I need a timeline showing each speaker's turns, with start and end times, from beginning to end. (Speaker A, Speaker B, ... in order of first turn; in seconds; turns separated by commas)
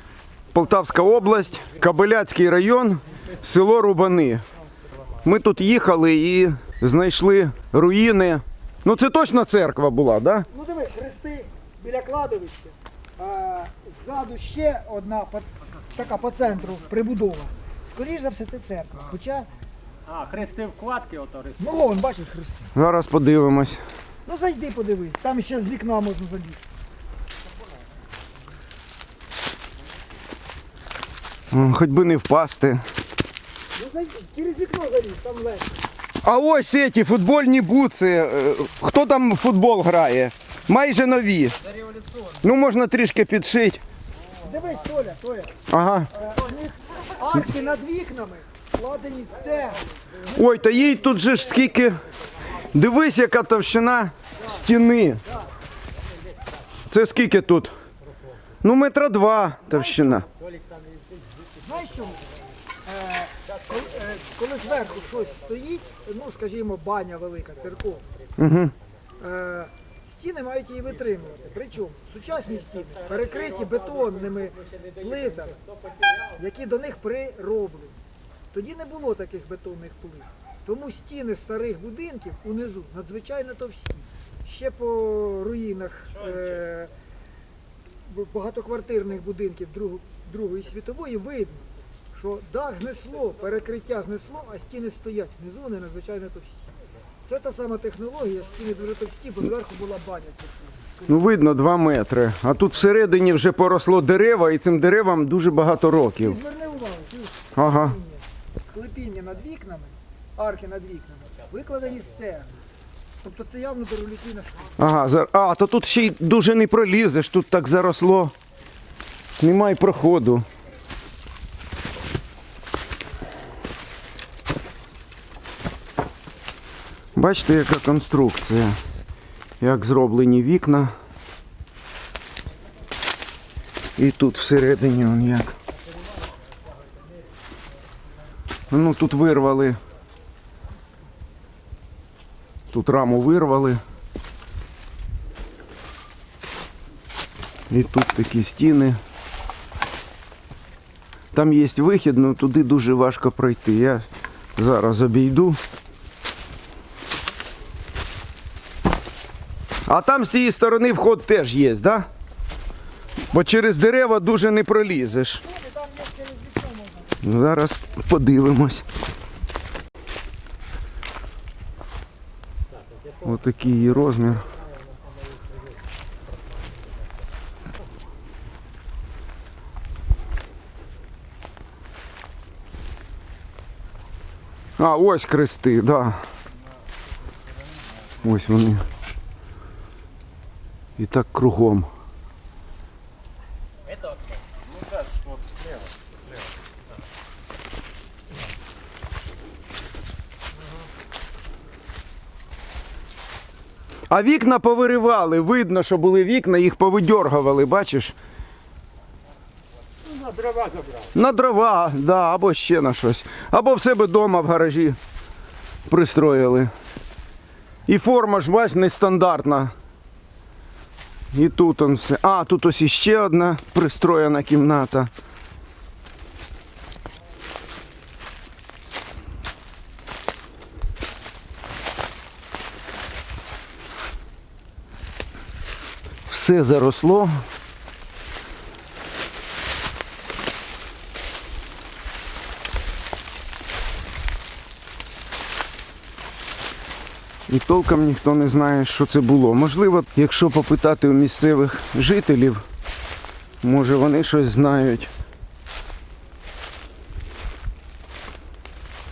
Speaker A: 0.5-4.4, Speaker A: 5.2-10.5, Speaker B: 10.5-19.5, Speaker C: 20.1-21.6, Speaker B: 21.6-22.7, Speaker A: 22.8-23.8, Speaker B: 24.3-26.7, Speaker A: 31.5-32.8, Speaker B: 33.8-35.7, Speaker A: 36.2-43.8, Speaker B: 44.4-45.5, Speaker A: 45.7-46.1, Speaker B: 46.2-49.9, Speaker A: 50.2-52.0, Speaker A: 52.7-55.2, Speaker A: 56.9-57.7, Speaker A: 58.6-60.3, Speaker B: 59.7-60.1, Speaker B: 61.6-62.2, Speaker B: 62.9-68.0, Speaker A: 68.4-68.7, Speaker B: 69.2-75.6, Speaker B: 76.3-78.0, Speaker B: 78.5-86.9, Speaker B: 88.1-96.7, Speaker B: 97.3-101.1, Speaker A: 101.1-106.4, Speaker B: 106.2-112.6, Speaker A: 107.6-108.0, Speaker B: 113.2-114.7, Speaker A: 114.8-118.3, Speaker A: 119.4-120.5, Speaker A: 127.2-128.8, Speaker A: 129.6-130.9, Speaker A: 134.0-135.5, Speaker A: 138.7-139.8, Speaker A: 142.7-143.8, Speaker A: 147.7-149.0, Speaker A: 151.3-155.6, Speaker A: 159.9-162.1, Speaker A: 163.3-165.4, Speaker B: 165.5-167.2, Speaker A: 167.2-168.8, Speaker A: 173.2-174.5, Speaker A: 184.8-186.2, Speaker A: 188.2-188.9, Speaker A: 191.0-191.9, Speaker C: 193.9-194.2, Speaker A: 204.1-208.1, Speaker C: 210.2-210.9, Speaker A: 211.1-215.0, Speaker A: 215.9-216.7, Speaker A: 217.9-219.7, Speaker A: 221.3-225.1, Speaker A: 236.3-237.4, Speaker A: 247.5-252.6, Speaker A: 253.6-255.1